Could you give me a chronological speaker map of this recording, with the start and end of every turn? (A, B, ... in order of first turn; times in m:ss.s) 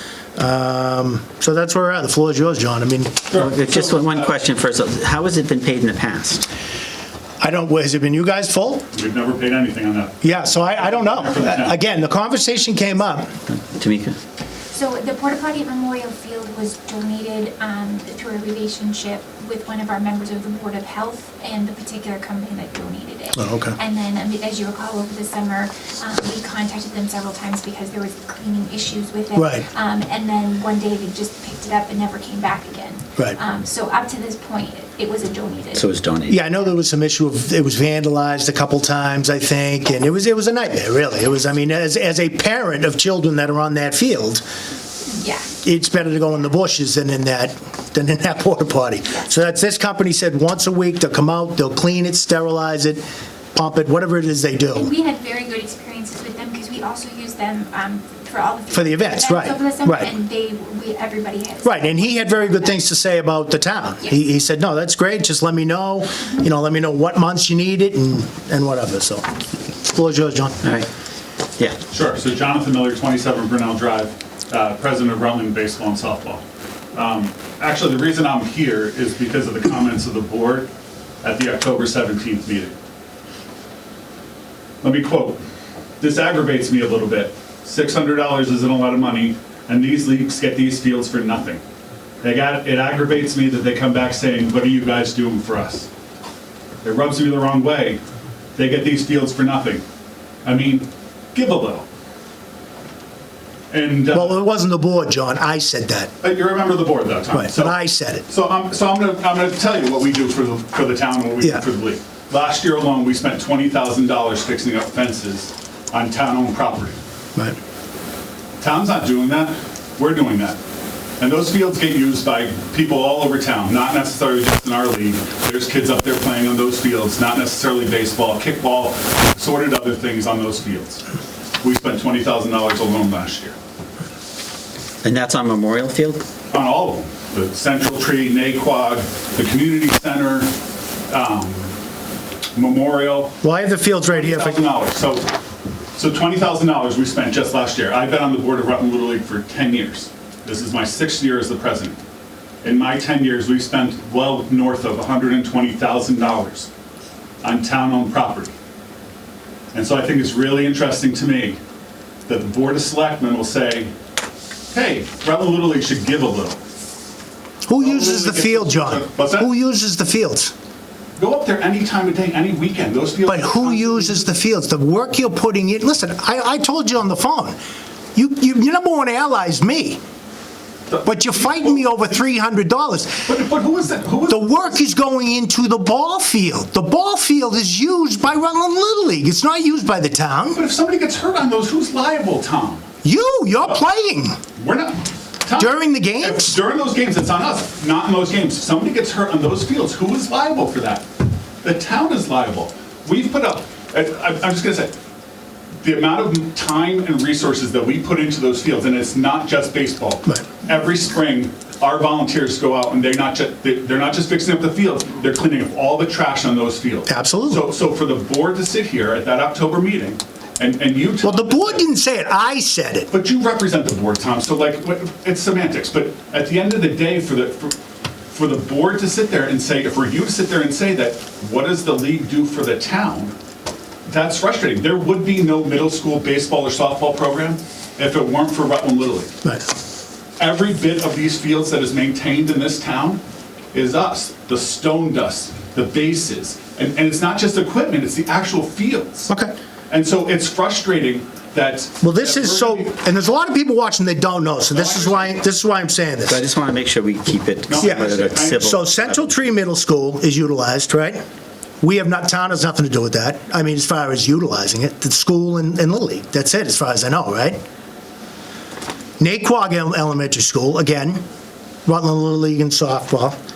0:00.4-0:03.2 A
0:03.3-0:04.3 B
0:03.4-0:06.5 C
0:07.4-0:08.8 A
0:08.9-0:11.8 B
0:10.2-0:13.3 A
0:13.5-0:14.2 C
0:14.7-0:35.9 D
0:23.4-0:23.8 A
0:29.4-0:29.7 A
0:35.7-0:36.4 C
0:36.3-0:44.4 A
0:45.1-0:45.5 D
0:45.6-0:54.9 A
0:54.7-1:02.8 D
0:58.7-1:00.1 A
1:01.6-1:09.2 A
1:09.9-1:10.6 A
1:11.9-1:16.4 B
1:16.9-1:20.7 B
1:21.2-1:22.7 B
1:24.8-1:25.4 B
1:26.0-1:31.6 B
1:32.2-1:35.9 B
1:36.8-1:38.0 B
1:38.6-1:39.8 B
1:40.4-1:41.8 B
1:43.7-1:44.4 B
1:44.1-1:46.1 A
1:46.2-1:57.0 B
1:47.3-1:48.2 A
1:58.6-2:00.6 B
2:01.2-2:11.0 B
2:11.6-2:13.6 B
2:15.0-2:16.2 C
2:16.5-2:20.5 B
2:21.1-2:21.8 B
2:22.6-2:23.4 B
2:23.4-2:24.6 A
2:24.1-2:25.3 B
2:26.0-2:32.0 B
2:32.6-2:36.7 B
2:37.4-2:38.5 B
2:39.7-2:41.6 B
2:42.3-2:43.9 B
2:44.7-2:46.6 B
2:47.7-2:50.5 A
2:47.8-2:49.5 B
2:51.2-2:54.4 B
2:53.3-2:57.6 A
2:58.2-3:00.0 A
3:00.9-3:02.2 B
3:01.0-3:03.3 A
3:03.2-3:04.5 B
3:04.3-3:10.6 A
3:10.5-3:12.9 B
3:13.0-3:14.4 A
3:14.6-3:21.1 B
3:15.6-3:16.6 A
3:21.6-3:24.9 B
3:25.8-3:41.8 B
3:37.1-3:37.7 A
3:41.2-3:43.1 A
3:43.1-3:47.8 B
3:48.3-3:53.4 B
3:54.1-3:59.3 B
4:00.4-4:03.2 B
4:03.7-4:09.3 B
4:09.3-4:09.5 A
4:09.9-4:12.9 B
4:12.0-4:16.4 A
4:14.7-4:15.5 B
4:16.3-4:19.4 C
4:17.7-4:18.7 B
4:17.8-4:21.2 A
4:21.8-4:27.6 A
4:29.2-4:31.2 A
4:31.9-4:33.4 A